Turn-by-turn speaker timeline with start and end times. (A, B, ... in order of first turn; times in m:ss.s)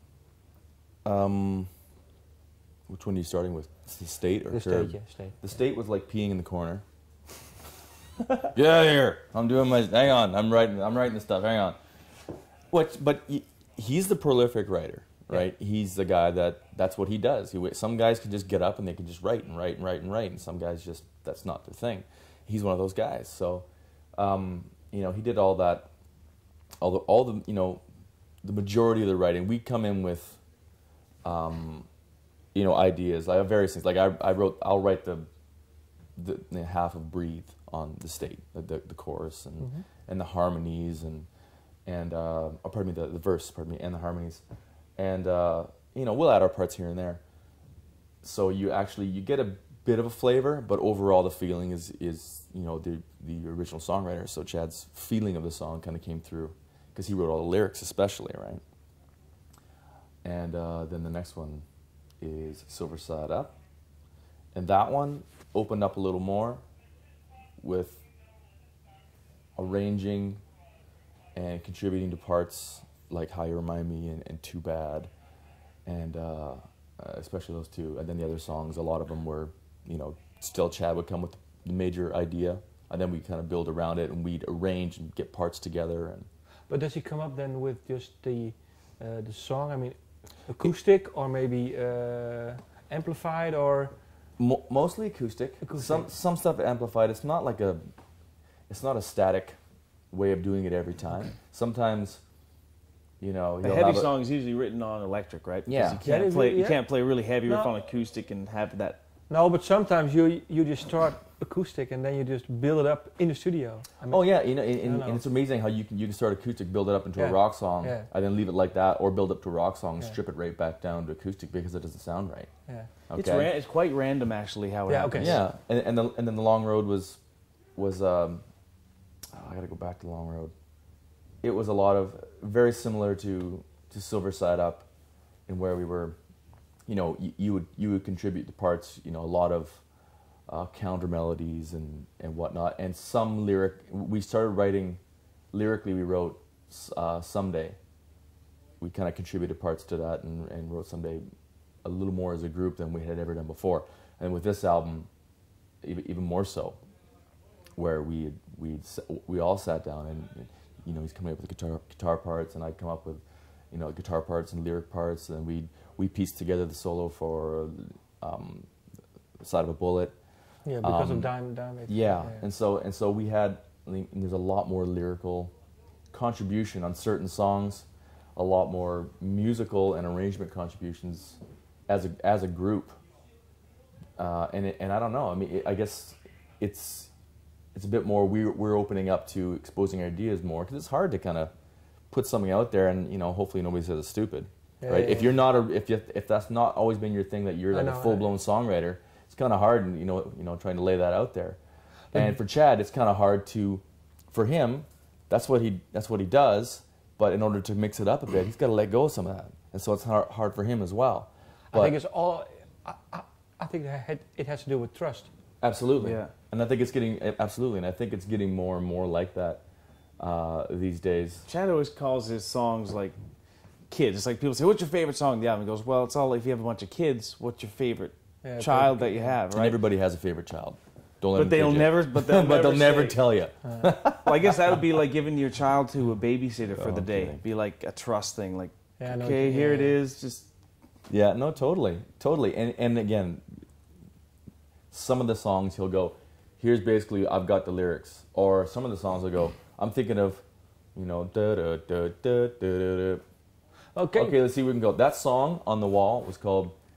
0:01.0-0:01.7 A
0:02.9-0:06.8 A
0:04.5-0:05.4 B
0:08.5-0:11.8 A
0:12.7-0:23.7 A
0:24.2-0:25.9 A
0:26.8-0:27.8 A
0:28.4-0:30.4 A
0:31.2-0:31.9 A
0:32.5-0:35.3 A
0:36.2-0:41.3 A
0:39.6-0:39.9 B
0:41.9-0:44.4 A
0:45.0-0:47.2 A
0:48.2-0:58.6 A
1:00.2-1:01.6 A
1:02.2-1:03.6 A
1:04.5-1:06.6 A
1:07.6-1:08.0 A
1:09.6-1:10.4 A
1:11.4-1:15.1 A
1:15.9-1:26.3 A
1:26.7-1:34.0 B
1:34.4-1:37.9 A
1:35.6-1:36.1 B
1:38.7-1:39.6 A
1:40.1-1:42.2 A
1:43.2-1:44.1 A
1:43.6-1:49.0 C
1:45.7-1:46.0 A
1:46.0-1:46.8 B
1:47.4-1:47.7 B
1:49.3-1:55.2 B
1:54.1-2:02.5 A
1:57.2-1:58.1 B
2:03.1-2:03.5 A
2:03.1-2:05.4 C
2:04.9-2:05.4 B
2:05.2-2:07.2 A
2:07.8-2:08.4 A
2:09.3-2:10.5 A
2:11.4-2:14.9 A
2:15.5-2:16.2 A
2:16.9-2:19.8 A
2:20.5-2:25.0 A
2:25.5-2:27.8 A
2:28.8-2:31.3 A
2:31.8-2:35.1 A
2:35.8-2:36.8 A
2:37.8-2:48.7 A
2:49.4-2:50.2 A
2:50.6-2:52.4 B
2:50.8-2:51.3 A
2:51.9-2:55.5 A
2:56.1-3:03.0 A
3:04.2-3:07.1 A
3:07.7-3:11.5 A
3:12.1-3:21.6 A
3:14.8-3:15.3 B
3:17.7-3:18.3 B
3:22.1-3:32.0 A
3:31.7-3:35.3 B
3:35.6-3:39.6 A
3:36.0-3:36.3 C
3:40.2-3:41.5 A
3:41.5-3:43.2 C
3:43.9-3:49.8 C
3:48.4-3:49.4 B
3:49.5-3:54.5 A
3:51.4-3:53.2 C
3:53.6-3:53.9 B
3:54.2-4:00.5 C
3:56.7-3:57.4 A
3:59.0-4:00.0 B
4:01.1-4:03.6 A
4:04.9-4:10.4 A
4:11.0-4:13.2 A
4:13.9-4:14.4 B
4:14.1-4:16.8 A